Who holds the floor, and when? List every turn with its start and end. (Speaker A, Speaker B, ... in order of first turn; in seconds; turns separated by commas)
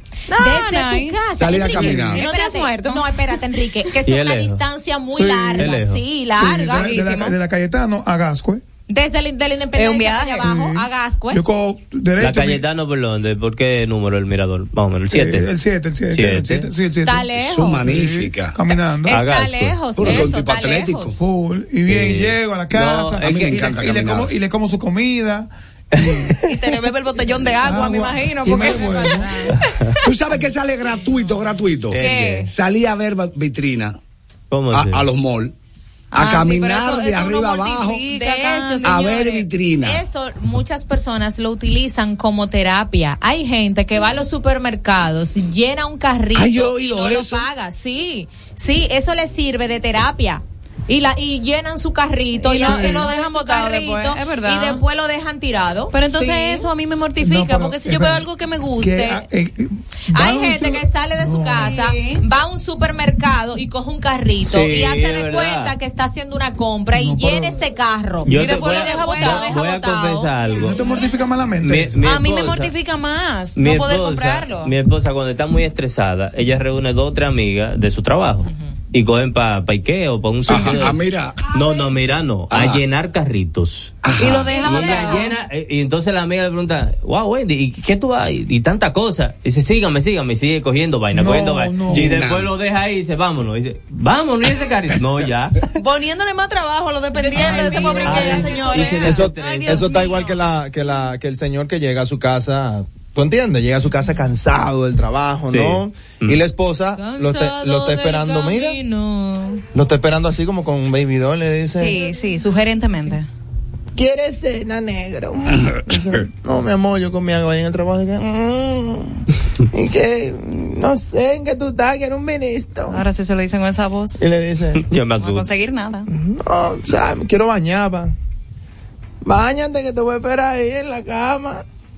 Speaker A: 0.3-3.0, Speaker B: 0.4-6.9, Speaker C: 1.3-2.3, Speaker D: 4.1-4.6, Speaker E: 5.1-5.7, Speaker D: 5.6-6.0, Speaker E: 6.3-8.6, Speaker A: 6.6-7.3, Speaker B: 8.9-11.4, Speaker A: 9.7-10.4, Speaker E: 10.4-12.6, Speaker D: 12.2-15.5, Speaker E: 15.1-17.3, Speaker D: 16.1-16.7, Speaker B: 17.0-17.8, Speaker C: 17.3-18.6, Speaker E: 17.8-19.2, Speaker B: 19.0-21.1, Speaker D: 19.1-20.3, Speaker C: 19.9-21.2, Speaker E: 21.2-26.3, Speaker D: 21.9-23.9, Speaker C: 23.2-24.3, Speaker D: 25.9-26.3, Speaker A: 26.4-29.6, Speaker E: 27.6-29.5, Speaker D: 29.7-29.9, Speaker C: 30.0-34.0, Speaker D: 31.9-32.5, Speaker A: 32.0-32.5, Speaker B: 32.0-32.4, Speaker D: 34.5-35.1, Speaker C: 34.7-35.5, Speaker A: 36.1-39.2, Speaker C: 36.1-38.0, Speaker B: 38.1-56.6, Speaker C: 38.8-40.0, Speaker C: 46.3-47.5, Speaker A: 52.4-54.8, Speaker E: 52.6-53.0, Speaker A: 55.9-59.2, Speaker E: 57.2-61.7, Speaker B: 60.1-71.1, Speaker A: 61.5-62.2, Speaker D: 64.4-65.7, Speaker E: 66.9-67.6, Speaker D: 68.2-70.8, Speaker A: 68.2-69.5, Speaker E: 70.5-72.0, Speaker D: 71.6-72.7, Speaker A: 72.0-74.7, Speaker D: 73.5-84.0, Speaker C: 80.4-81.5, Speaker C: 82.5-82.8, Speaker C: 84.0-84.8, Speaker A: 84.2-85.3, Speaker B: 84.5-85.2, Speaker D: 84.5-95.5, Speaker E: 91.1-92.2, Speaker C: 91.9-92.5, Speaker A: 95.8-100.4, Speaker B: 97.1-99.1, Speaker D: 97.8-99.9, Speaker F: 99.0-108.8, Speaker D: 105.5-106.4, Speaker B: 107.0-109.6, Speaker F: 109.7-112.0, Speaker A: 111.7-113.3, Speaker F: 113.9-123.1, Speaker C: 115.5-116.2, Speaker A: 122.9-124.2, Speaker F: 124.2-124.8, Speaker D: 124.8-125.5, Speaker A: 125.2-126.1, Speaker F: 126.1-128.1, Speaker F: 129.2-131.6